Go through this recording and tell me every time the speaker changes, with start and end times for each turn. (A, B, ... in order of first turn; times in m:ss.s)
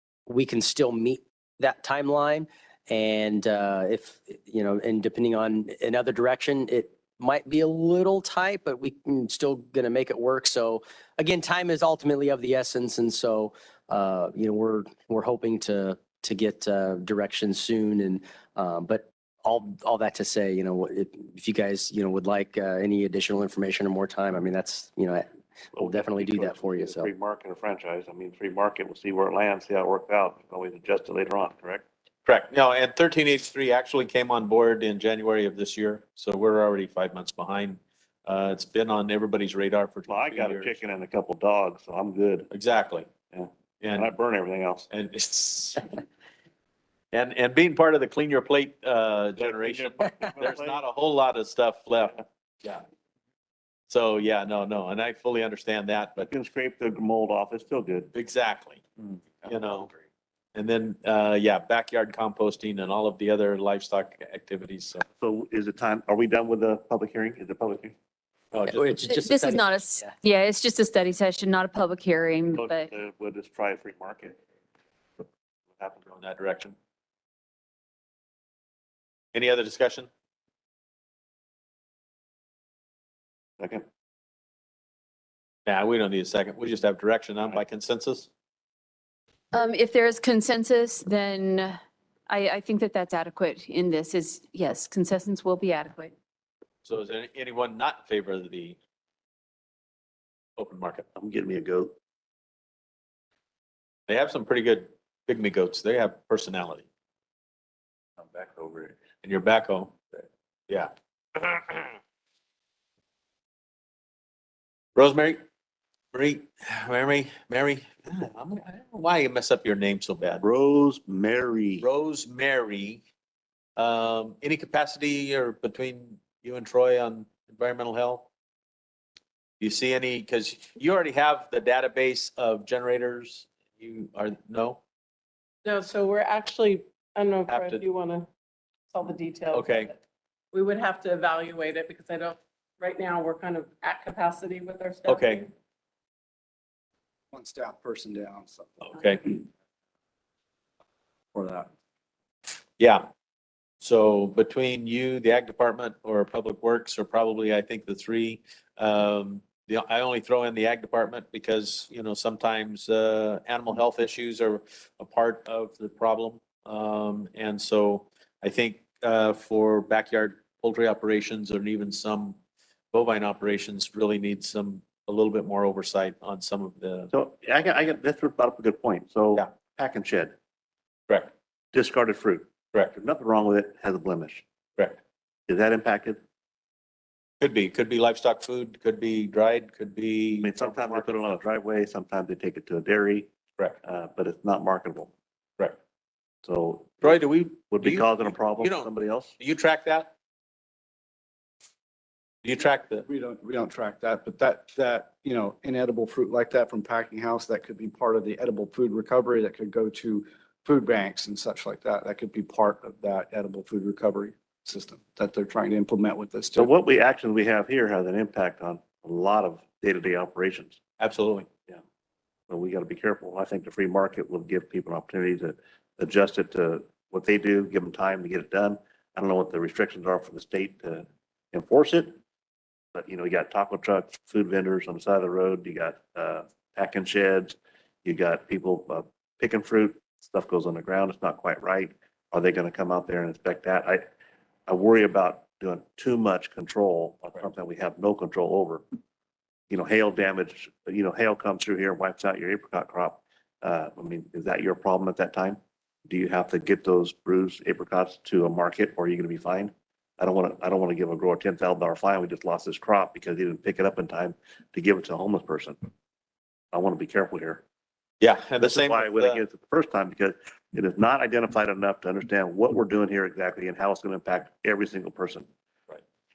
0:00.3-0:27.1 A
0:25.7-0:31.8 B
0:32.2-0:40.8 C
0:40.1-0:42.5 B
0:42.5-0:43.1 C
0:43.3-0:44.9 B
0:43.8-0:44.1 C
0:44.9-0:45.8 C
0:47.1-0:52.8 C
0:49.4-0:50.8 B
0:53.9-0:56.3 C
0:56.2-0:58.1 B
0:58.1-0:58.9 C
0:59.4-0:59.9 C
1:00.5-1:05.0 C
1:05.2-1:07.9 B
1:08.5-1:09.0 C
1:08.7-1:10.1 A
1:09.1-1:12.9 D
1:12.6-1:14.4 B
1:15.8-1:16.0 B
1:16.0-1:16.8 C
1:19.3-1:20.1 C
1:23.6-1:23.8 B
1:25.6-1:28.3 C
1:29.5-1:31.8 D
1:32.3-1:36.1 D
1:36.8-1:38.8 C
1:40.6-1:41.0 C
1:41.1-1:41.9 B
1:44.1-1:46.8 C
1:48.3-1:50.0 C
1:50.7-1:52.0 C
1:54.9-1:55.4 C
1:56.1-2:00.4 C
2:00.4-2:01.9 B
2:01.8-2:03.0 C
2:03.8-2:08.3 C
2:09.6-2:14.8 C
2:15.6-2:18.3 E
2:17.5-2:17.8 C
2:18.9-2:20.0 E
2:19.5-2:19.9 C
2:20.5-2:25.5 E
2:25.1-2:25.4 C
2:27.3-2:29.4 F
2:28.8-2:29.4 C
2:31.3-2:31.7 F
2:32.8-2:33.0 C
2:33.8-2:52.4 C
2:52.9-2:57.1 C
2:57.1-3:00.3 B
3:01.7-3:04.4 B
3:05.5-3:06.2 B
3:07.4-3:11.3 C
3:10.4-3:13.3 B
3:13.8-3:15.1 B
3:16.4-3:19.3 B
3:17.0-3:20.1 C
3:22.4-3:23.0 C
3:23.0-3:36.7 F
3:36.6-3:40.8 B
3:41.0-3:41.5 C
3:42.5-3:52.2 B
3:52.9-4:04.0 B
4:04.7-4:08.8 B
4:09.7-4:25.8 B
4:26.7-4:27.6 B
4:28.2-4:29.4 C
4:28.6-4:35.5 B